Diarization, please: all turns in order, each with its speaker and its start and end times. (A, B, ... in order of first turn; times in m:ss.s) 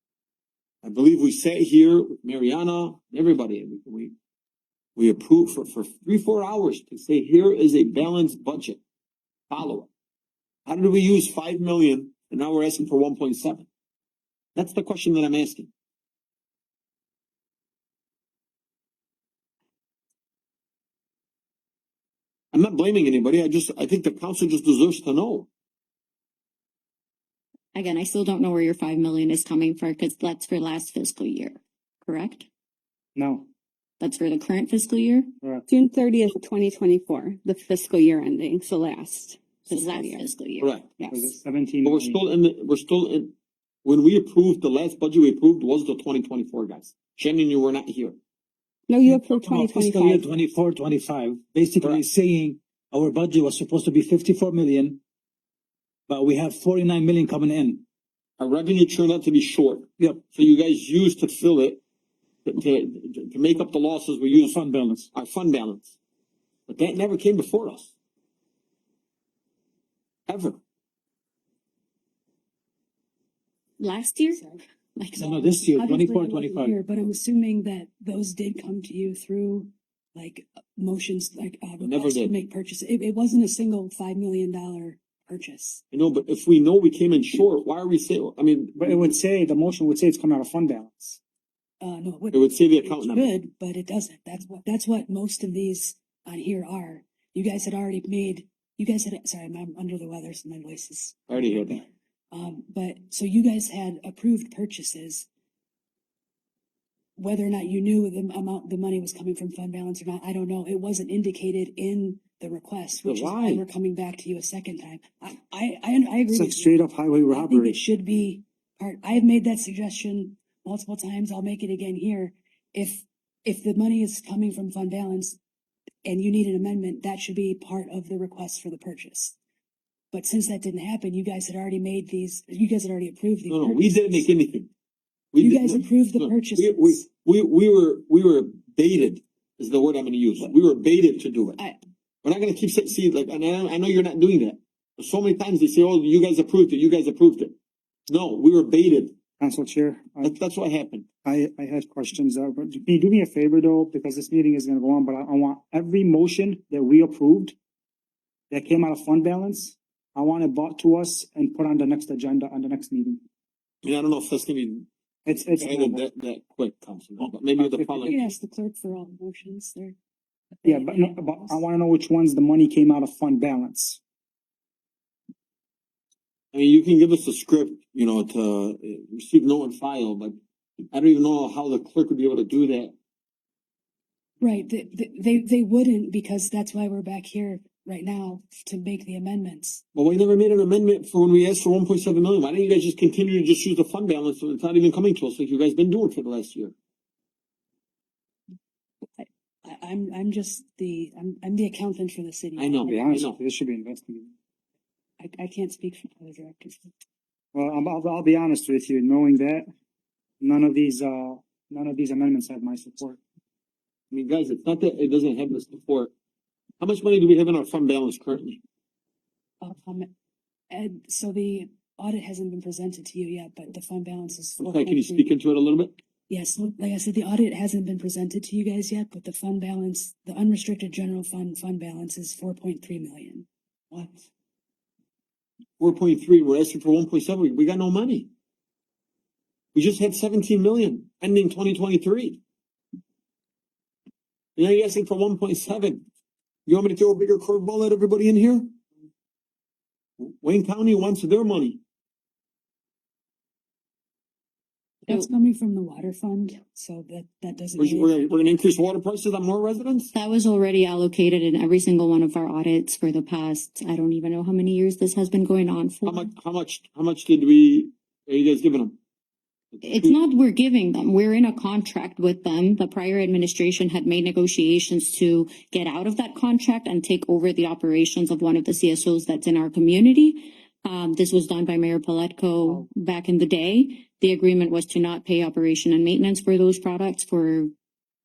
0:00.8-0:04.1 A
0:05.0-0:08.8 A
0:09.5-0:09.9 A
0:10.6-0:13.7 A
0:14.5-0:15.7 A
0:22.5-0:25.5 A
0:27.7-0:32.5 B
0:33.2-0:33.5 C
0:34.0-0:35.3 B
0:35.7-0:40.2 D
0:39.7-0:40.7 B
0:40.6-0:40.9 A
0:41.0-0:41.3 D
0:41.1-0:42.2 C
0:41.8-0:43.3 A
0:43.8-0:48.2 A
0:48.9-0:50.2 D
0:49.0-0:55.0 E
0:56.1-0:57.8 E
0:58.4-1:01.8 A
1:02.4-1:06.0 A
1:04.3-1:05.1 E
1:06.7-1:07.9 A
1:10.3-1:10.6 A
1:13.8-1:15.3 B
1:14.3-1:14.6 F
1:15.2-1:16.8 E
1:15.2-1:25.8 F
1:21.8-1:22.3 A
1:25.9-1:29.1 A
1:28.8-1:31.2 C
1:31.8-1:41.8 F
1:32.3-1:33.3 A
1:41.3-1:41.8 A
1:42.3-1:45.3 F
1:47.2-1:56.8 F
1:53.0-1:53.6 A
1:56.3-1:57.8 C
1:57.3-2:05.4 F
2:06.0-2:09.4 F
2:10.1-2:14.3 F
2:13.5-2:14.7 A
2:15.3-2:21.6 A
2:15.4-2:17.0 F
2:22.2-2:27.5 A
2:28.1-2:29.1 A
2:29.4-2:30.3 C
2:30.2-2:31.0 A
2:31.2-2:37.5 C
2:38.5-2:43.2 C
2:43.8-2:44.9 A
2:45.2-2:46.0 C
2:45.6-2:48.2 A
2:47.6-2:48.2 C
2:48.1-2:50.0 F
2:50.6-2:51.6 F
2:50.6-2:54.0 C
2:56.5-3:00.4 A
3:00.9-3:02.9 A
3:04.4-3:09.8 F
3:09.9-3:16.7 A
3:19.2-3:23.0 F
3:22.6-3:23.4 A
3:22.8-3:24.3 C
3:25.2-3:26.9 F
3:27.5-3:29.6 C
3:30.4-3:33.2 C
3:34.1-3:36.1 A
3:36.8-3:38.6 A
3:39.6-3:40.1 F
3:40.7-3:45.3 F
3:44.6-3:45.9 A
3:46.3-3:54.3 F
3:55.8-3:58.3 A
3:59.7-4:02.4 A
4:04.6-4:06.0 A
4:06.6-4:08.7 A
4:10.2-4:11.8 A
4:15.0-4:18.2 F
4:17.8-4:20.1 A
4:20.1-4:26.3 B
4:26.0-4:29.0 A
4:29.7-4:30.2 A
4:29.8-4:47.7 B